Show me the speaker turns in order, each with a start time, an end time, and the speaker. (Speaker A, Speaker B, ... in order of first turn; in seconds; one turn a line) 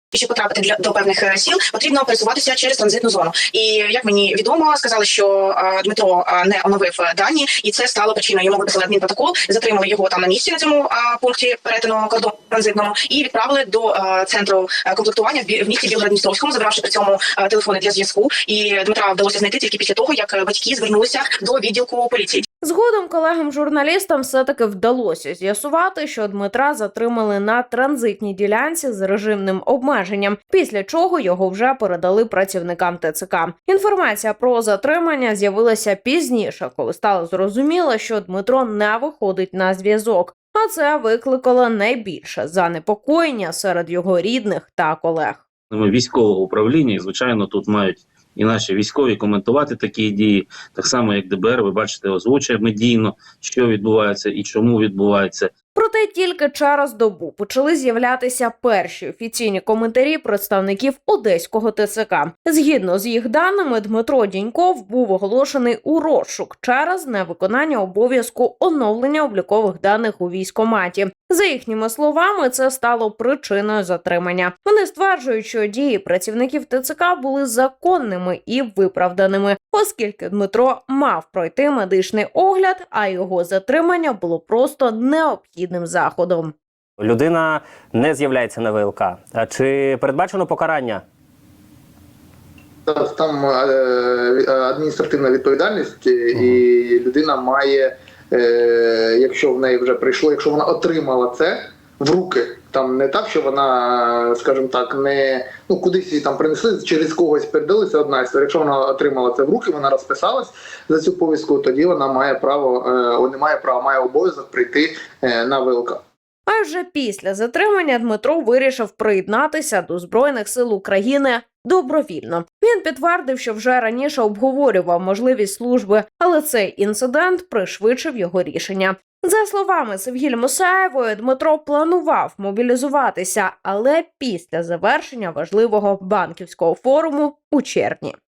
Speaker A: 0.1-22.4
Speaker B: 22.6-45.4
Speaker C: 45.7-55.5
Speaker B: 55.7-86.5
Speaker D: 87.0-91.0
Speaker E: 92.9-116.0
Speaker B: 116.5-138.2